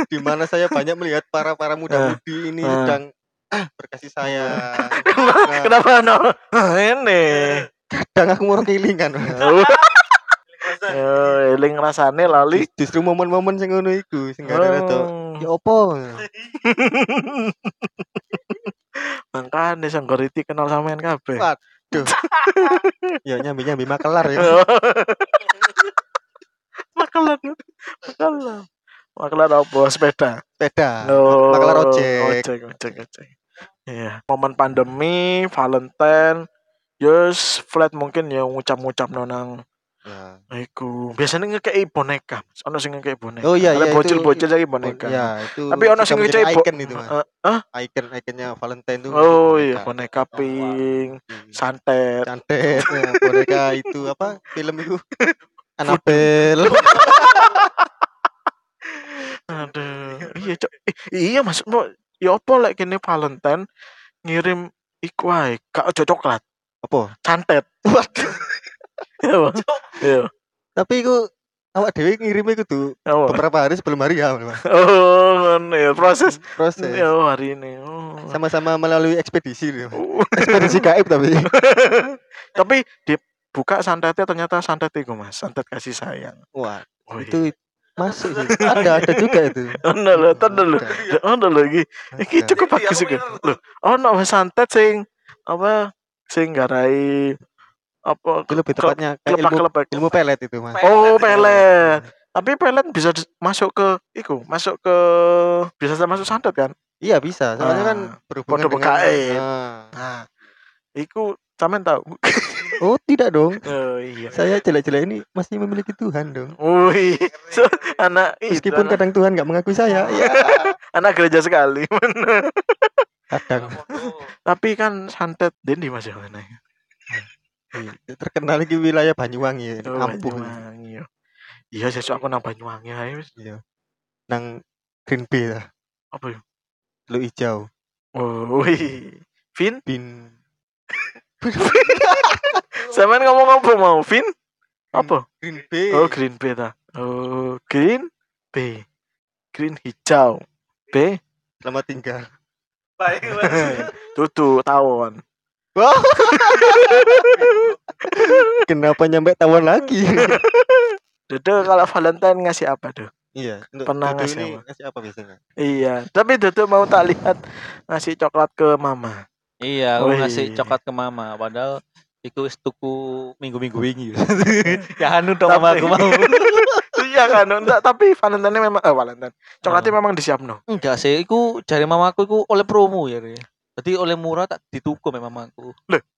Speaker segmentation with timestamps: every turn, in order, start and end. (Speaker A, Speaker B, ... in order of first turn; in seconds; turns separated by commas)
Speaker A: 0.1-5.8, Speaker B: 1.9-3.0, Speaker B: 4.2-7.7, Speaker A: 7.9-9.6, Speaker B: 9.4-12.7, Speaker A: 12.4-16.2, Speaker B: 14.5-15.4, Speaker B: 16.5-21.5, Speaker A: 21.4-22.1, Speaker B: 22.0-23.1, Speaker A: 23.2-24.6, Speaker B: 24.4-25.8, Speaker B: 26.9-28.7, Speaker B: 29.2-30.4, Speaker A: 30.6-32.5, Speaker B: 31.1-33.3, Speaker B: 33.9-36.4, Speaker B: 37.0-39.5, Speaker A: 40.1-40.4, Speaker B: 40.5-47.6, Speaker A: 43.4-47.1, Speaker A: 47.7-51.5, Speaker B: 49.1-52.3, Speaker A: 52.3-55.0, Speaker B: 52.8-54.1, Speaker A: 55.8-57.7, Speaker B: 55.9-57.7, Speaker B: 58.9-63.6, Speaker B: 64.2-66.4, Speaker A: 66.8-67.1, Speaker B: 67.3-67.7, Speaker A: 67.9-68.6, Speaker B: 69.2-70.3, Speaker A: 70.8-71.2, Speaker A: 71.8-74.6, Speaker B: 73.1-73.4, Speaker B: 74.7-78.4, Speaker A: 76.3-77.0, Speaker A: 78.3-81.4, Speaker B: 80.0-80.8, Speaker B: 81.5-86.4, Speaker A: 86.5-91.1, Speaker B: 87.1-87.4, Speaker B: 88.5-95.8, Speaker A: 92.2-92.7, Speaker B: 96.3-97.4, Speaker B: 98.1-100.0, Speaker A: 98.5-102.0, Speaker B: 100.8-106.7, Speaker A: 107.0-109.9, Speaker B: 107.6-109.4, Speaker B: 110.0-110.2, Speaker B: 111.0-112.8, Speaker A: 112.8-113.7, Speaker B: 113.7-114.5, Speaker A: 114.3-116.5, Speaker B: 116.6-119.0, Speaker A: 118.5-120.7, Speaker B: 119.9-122.9, Speaker A: 123.3-124.0, Speaker B: 123.7-126.6, Speaker A: 127.8-130.6, Speaker B: 129.9-131.1, Speaker B: 131.7-133.3, Speaker A: 135.1-135.7, Speaker B: 136.1-136.4, Speaker A: 137.1-137.7, Speaker B: 138.2-139.8, Speaker A: 139.9-140.3, Speaker A: 141.4-142.6, Speaker B: 141.6-144.3, Speaker B: 144.9-145.2, Speaker A: 144.9-146.2, Speaker B: 145.9-148.9, Speaker B: 149.5-151.2, Speaker A: 151.6-152.3, Speaker B: 153.1-155.2, Speaker A: 153.5-153.8, Speaker A: 155.8-157.5, Speaker B: 156.3-158.5, Speaker A: 158.1-160.4, Speaker B: 160.2-163.1, Speaker A: 163.4-165.4, Speaker B: 163.9-164.6, Speaker B: 165.6-169.2, Speaker C: 169.6-176.9, Speaker B: 170.0-170.7, Speaker B: 174.7-174.9, Speaker B: 175.5-180.6, Speaker C: 179.7-179.9, Speaker C: 180.7-185.8